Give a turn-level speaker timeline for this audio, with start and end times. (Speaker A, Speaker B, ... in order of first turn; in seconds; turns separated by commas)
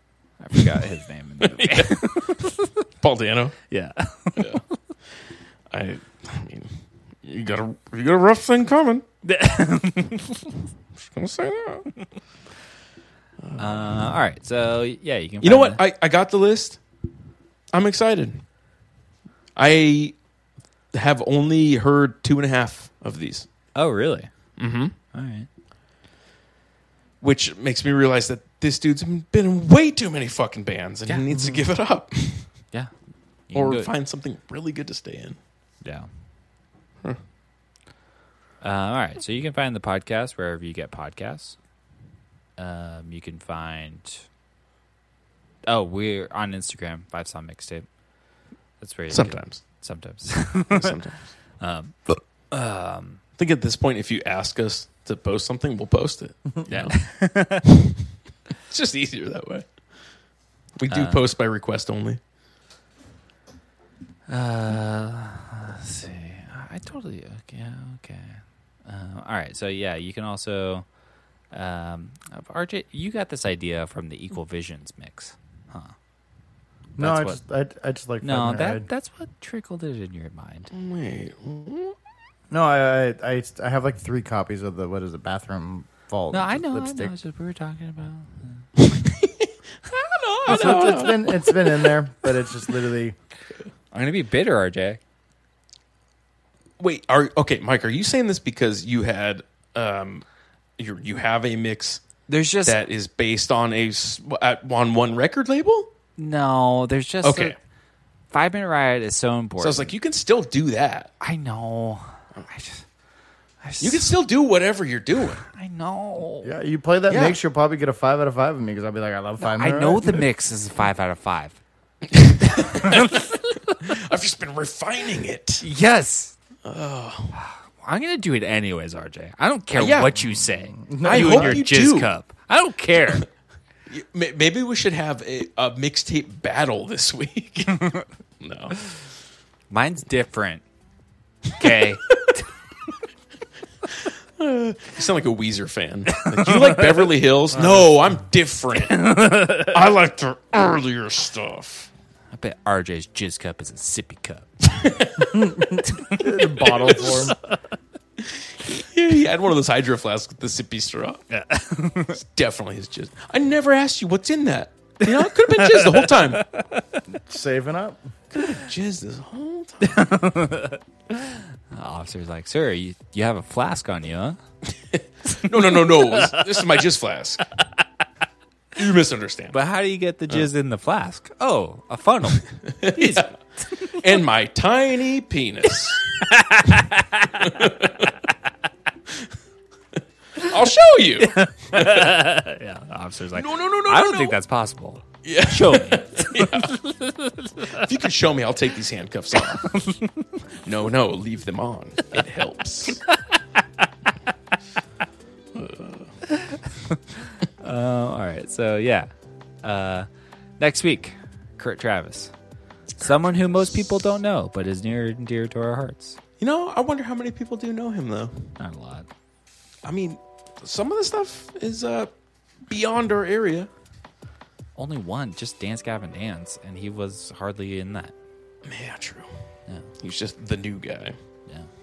Speaker A: 0.4-2.7, Speaker B: 1.4-3.6, Speaker A: 3.7-4.6, Speaker B: 4.3-9.1, Speaker A: 9.2-10.6, Speaker B: 11.0-11.9, Speaker B: 13.4-14.1, Speaker A: 13.6-15.8, Speaker B: 15.4-16.8, Speaker B: 17.7-18.4, Speaker B: 19.6-20.1, Speaker B: 20.9-23.5, Speaker A: 23.8-24.3, Speaker B: 24.6-24.9, Speaker A: 25.1-25.5, Speaker B: 27.2-32.5, Speaker A: 31.1-31.6, Speaker A: 33.5-33.9, Speaker B: 33.5-35.4, Speaker A: 38.6-41.6, Speaker A: 42.6-44.3, Speaker A: 45.7-47.9, Speaker A: 48.8-51.0, Speaker B: 49.1-49.6, Speaker B: 50.7-51.3, Speaker A: 51.6-53.2, Speaker B: 53.4-57.1, Speaker A: 56.7-57.6, Speaker B: 57.6-58.0, Speaker B: 58.6-59.7, Speaker B: 60.8-62.2, Speaker A: 60.9-61.2, Speaker A: 64.3-70.9, Speaker A: 71.5-75.9, Speaker C: 77.0-78.9, Speaker A: 77.0-77.4, Speaker A: 78.2-80.7, Speaker B: 80.7-82.0, Speaker C: 82.5-87.1, Speaker A: 86.3-88.7, Speaker B: 88.8-91.9, Speaker A: 90.5-91.1, Speaker C: 90.5-93.2, Speaker A: 93.9-95.0, Speaker B: 96.8-100.2, Speaker B: 100.8-102.0, Speaker A: 102.3-102.8, Speaker B: 102.7-105.9, Speaker A: 106.2-107.5, Speaker B: 107.2-107.6, Speaker A: 108.3-109.9, Speaker B: 109.6-111.1, Speaker A: 111.2-112.8, Speaker A: 113.6-114.1, Speaker B: 113.8-115.4, Speaker A: 115.4-116.5, Speaker C: 116.4-120.2, Speaker B: 117.1-117.4, Speaker A: 119.4-121.6, Speaker B: 122.1-125.6, Speaker A: 122.4-124.0, Speaker A: 125.6-126.3, Speaker B: 126.6-127.4, Speaker A: 127.3-133.3, Speaker B: 129.8-130.2, Speaker C: 130.8-131.6, Speaker B: 131.0-132.1, Speaker B: 133.9-138.8, Speaker A: 139.7-140.6, Speaker A: 141.6-142.5, Speaker B: 141.6-142.3, Speaker B: 144.4-151.9, Speaker A: 146.1-147.1, Speaker A: 148.8-149.9, Speaker A: 152.3-154.5, Speaker B: 154.6-155.7, Speaker C: 155.2-157.3, Speaker A: 155.8-157.6, Speaker B: 156.6-157.3, Speaker B: 158.2-161.2, Speaker A: 161.3-162.2, Speaker B: 162.1-166.4, Speaker A: 165.0-167.0, Speaker C: 167.1-168.1, Speaker B: 168.3-170.1, Speaker A: 169.8-174.4, Speaker B: 174.7-177.4, Speaker A: 175.4-176.5, Speaker B: 178.8-179.6, Speaker A: 179.5-184.2, Speaker B: 182.6-183.3, Speaker B: 183.8-186.0, Speaker A: 185.7-187.8, Speaker B: 187.4-188.1, Speaker B: 190.4-192.2, Speaker A: 191.2-197.9, Speaker B: 193.3-194.4, Speaker B: 195.2-196.8, Speaker B: 197.7-199.8, Speaker A: 199.3-200.4, Speaker B: 200.6-203.1, Speaker A: 203.1-203.8, Speaker B: 205.6-206.1, Speaker A: 206.2-209.1, Speaker A: 209.6-210.1, Speaker A: 210.6-212.3, Speaker A: 213.0-216.2, Speaker B: 216.4-218.6, Speaker A: 218.6-219.1, Speaker B: 219.8-222.1, Speaker B: 222.7-223.7, Speaker A: 224.8-228.1, Speaker B: 228.7-229.3, Speaker B: 230.0-231.2